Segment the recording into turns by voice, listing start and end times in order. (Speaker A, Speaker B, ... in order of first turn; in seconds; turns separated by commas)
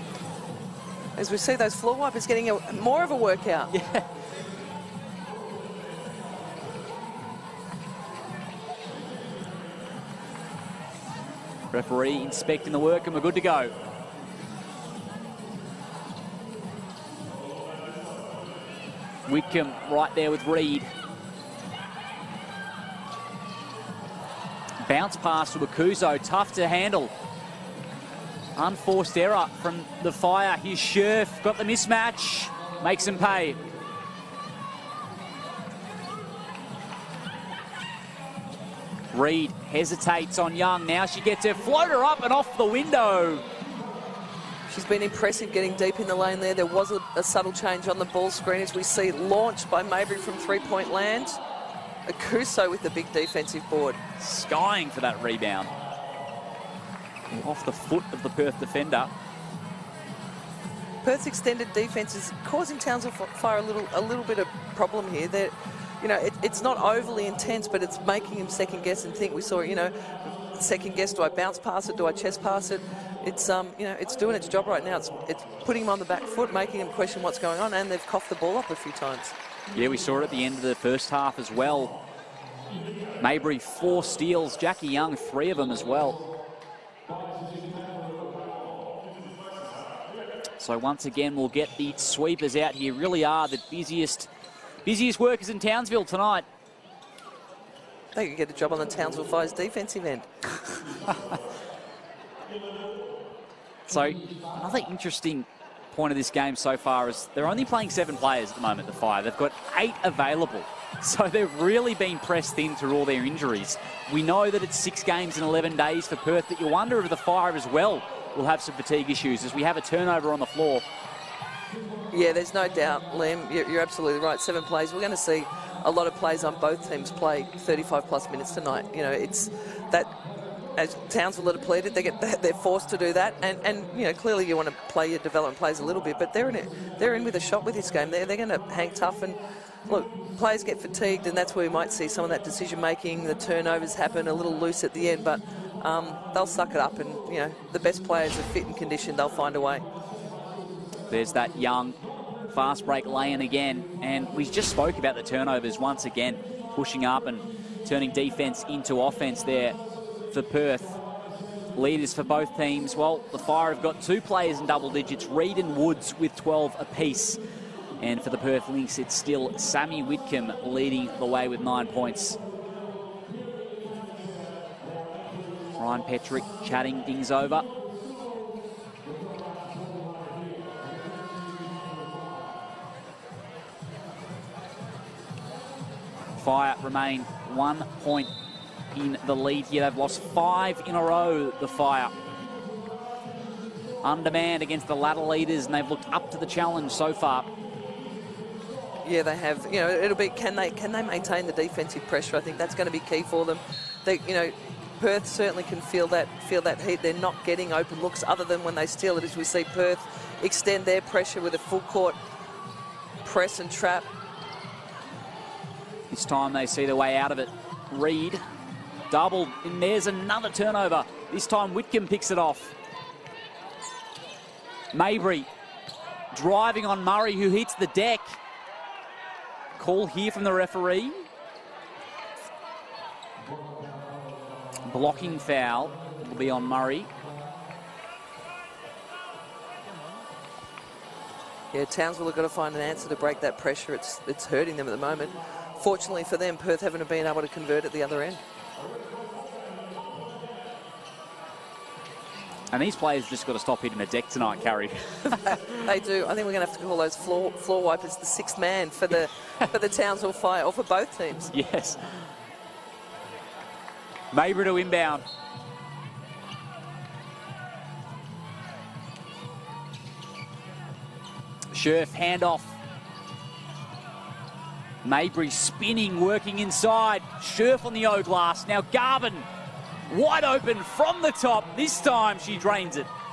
Speaker A: 1.2-3.7, Speaker B: 3.7-4.0, Speaker B: 11.7-13.7, Speaker B: 19.3-20.9, Speaker B: 24.8-27.1, Speaker B: 28.6-33.6, Speaker B: 39.1-43.5, Speaker A: 44.7-51.4, Speaker A: 52.1-54.0, Speaker B: 54.2-55.7, Speaker B: 57.3-59.1, Speaker A: 61.0-79.3, Speaker B: 79.8-81.9, Speaker B: 83.2-86.2, Speaker B: 90.6-94.3, Speaker B: 94.8-96.5, Speaker A: 98.1-100.3, Speaker B: 100.7-101.4, Speaker B: 103.9-120.8, Speaker A: 122.1-130.1, Speaker A: 130.8-149.9, Speaker B: 151.1-152.0, Speaker B: 152.5-159.8, Speaker B: 160.3-161.0, Speaker B: 161.8-167.4, Speaker B: 168.0-172.4, Speaker B: 175.8-177.7, Speaker B: 186.4-188.3, Speaker B: 188.9-192.1, Speaker B: 194.0-197.5, Speaker A: 199.0-212.2, Speaker A: 213.2-214.1, Speaker B: 216.1-218.4, Speaker B: 219.1-222.8, Speaker B: 224.9-225.5, Speaker B: 226.3-228.4, Speaker B: 229.8-231.3, Speaker B: 234.9-237.1, Speaker A: 241.7-248.4, Speaker B: 252.7-255.6, Speaker A: 255.5-261.5, Speaker B: 261.5-262.0, Speaker B: 264.3-265.2, Speaker B: 271.7-272.8, Speaker B: 275.0-279.5, Speaker B: 280.1-283.1